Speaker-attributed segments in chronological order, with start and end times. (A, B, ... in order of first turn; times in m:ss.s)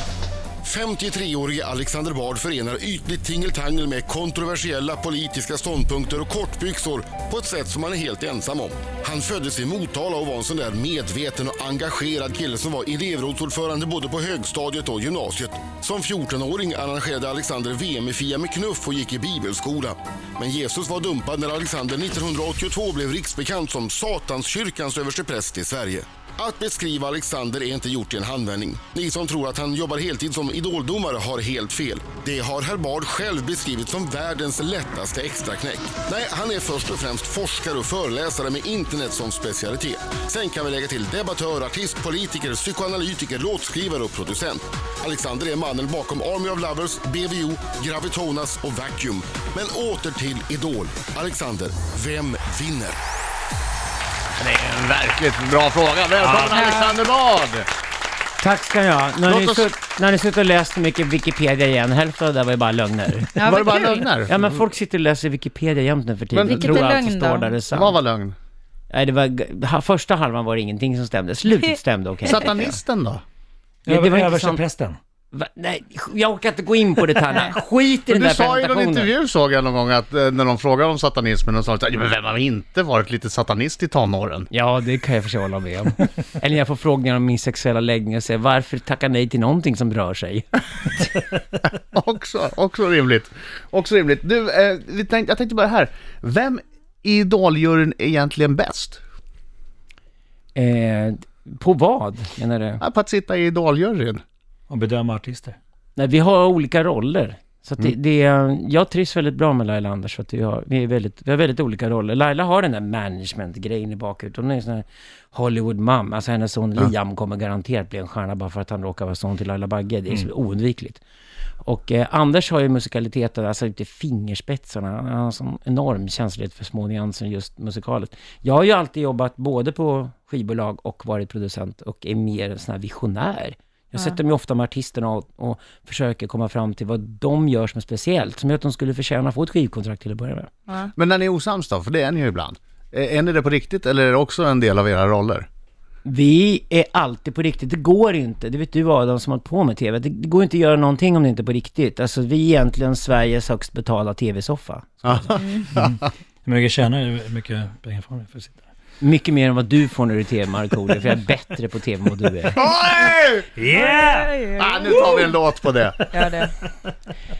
0:00.6-0:53.0 A
0:54.4-0:57.7 B
0:56.2-0:56.6 C
0:56.5-0:57.0 D
0:58.4-1:08.0 E
0:59.2-0:59.7 B
1:03.3-1:04.1 D
1:03.4-1:04.5 B
1:06.3-1:06.9 B
1:06.4-1:07.5 D
1:07.7-1:08.4 B
1:08.9-1:12.8 E
1:12.2-1:13.2 B
1:13.8-1:15.0 C
1:13.9-1:14.6 E
1:15.3-1:19.1 E
1:17.3-1:17.6 D
1:18.0-1:24.5 B
1:24.5-1:31.1 E
1:31.8-1:39.0 B
1:40.6-1:42.8 E
1:42.8-1:44.2 B
1:44.7-1:45.6 C
1:46.0-2:01.0 E
2:01.6-2:20.5 E
2:20.9-2:25.4 B
2:26.0-2:35.5 E
2:35.0-2:35.8 B
2:35.4-2:35.7 D
2:35.7-2:38.6 C
2:39.0-2:42.7 E
2:42.5-2:43.5 B
2:43.6-2:44.3 C
2:43.7-2:45.4 D
2:44.6-2:46.1 B
2:46.1-2:46.5 D